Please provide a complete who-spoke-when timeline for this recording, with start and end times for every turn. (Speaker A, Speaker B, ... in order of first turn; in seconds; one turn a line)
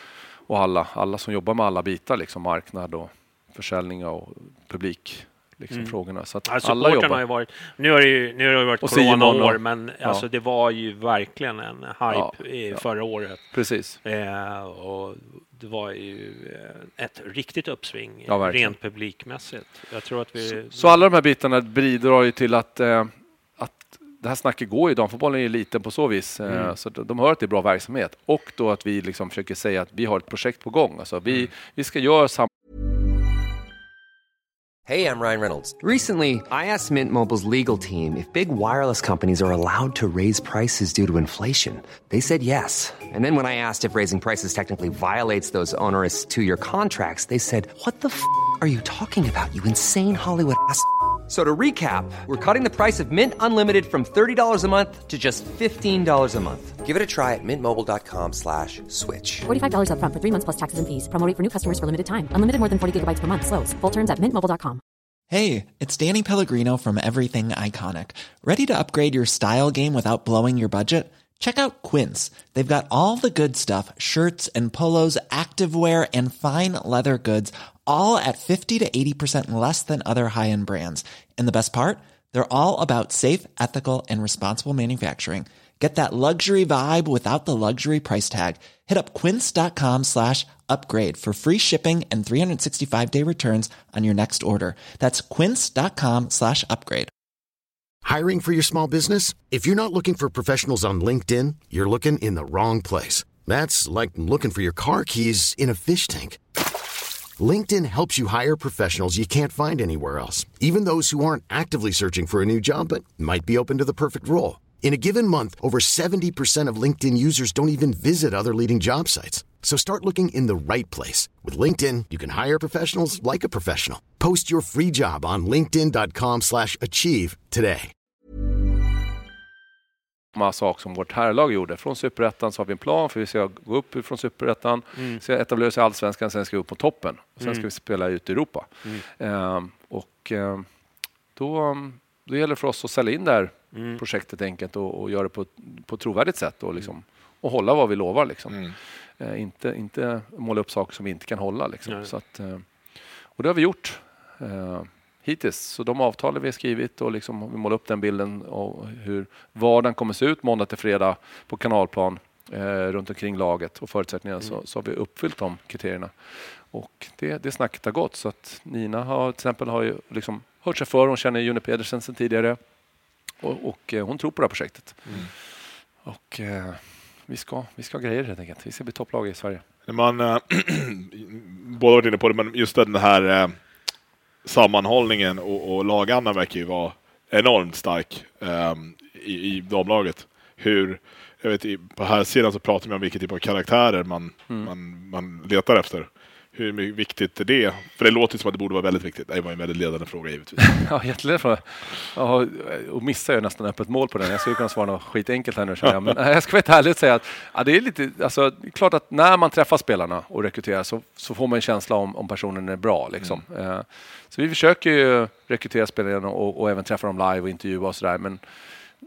Speaker A: 0.5-7.2
Speaker B: 5.7-13.5
Speaker A: 8.8-10.2
Speaker A: 12.1-14.0
Speaker B: 14.0-21.0
Speaker A: 18.3-18.8
Speaker A: 20.5-32.5
Speaker C: 34.9-59.5
Speaker D: 59.5-64.8
Speaker E: 65.3-97.1
Speaker F: 98.0-106.4
Speaker F: 107.4-127.9
Speaker A: 130.3-140.7
Speaker B: 135.0-135.2
Speaker B: 137.4-137.7
Speaker A: 141.4-148.6
Speaker B: 143.7-144.0
Speaker A: 149.2-152.7
Speaker B: 151.9-152.1
Speaker A: 153.3-172.6
Speaker A: 173.4-175.2
Speaker A: 176.0-179.7
Speaker G: 179.9-183.6
Speaker G: 184.4-200.7
Speaker A: 200.6-218.4